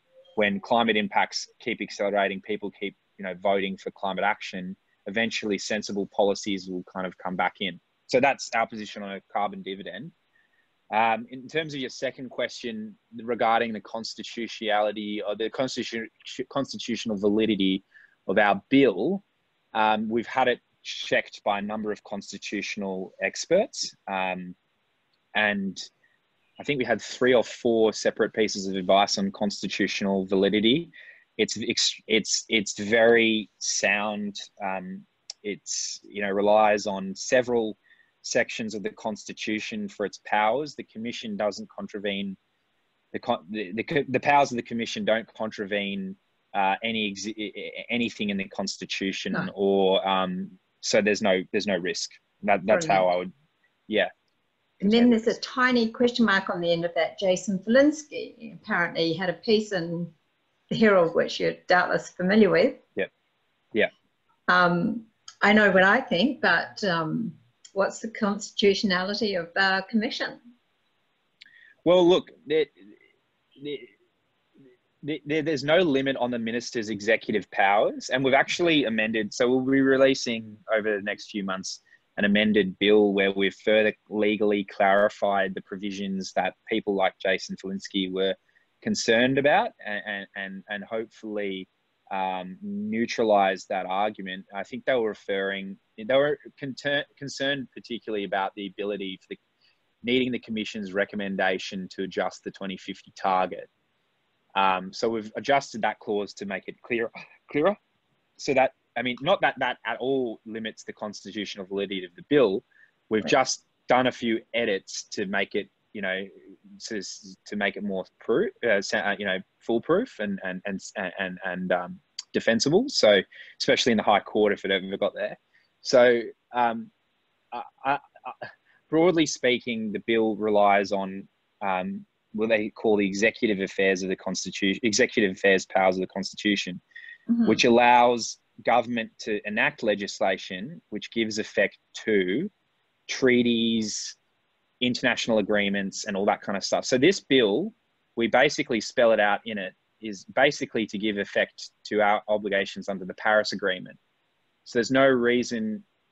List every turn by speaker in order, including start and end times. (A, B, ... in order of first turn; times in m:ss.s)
0:00.4-0:10.1 A
0:10.9-0:19.2 A
0:19.7-0:24.6 A
0:25.4-0:25.9 A
0:26.6-0:42.4 A
0:43.1-0:53.3 A
0:52.7-0:53.0 B
0:54.8-0:55.4 A
0:54.8-1:00.1 B
1:00.7-1:02.8 B
1:04.5-1:10.4 B
1:11.8-1:12.9 A
1:13.6-1:13.9 A
1:15.0-1:39.4 A
1:40.0-1:43.7 A
1:44.6-1:47.8 A
1:48.4-2:06.9 A
2:07.5-2:16.8 A
2:17.3-2:17.6 B
2:17.4-2:22.5 A
2:23.1-2:24.1 A
2:24.8-2:34.0 A
2:34.6-2:35.8 A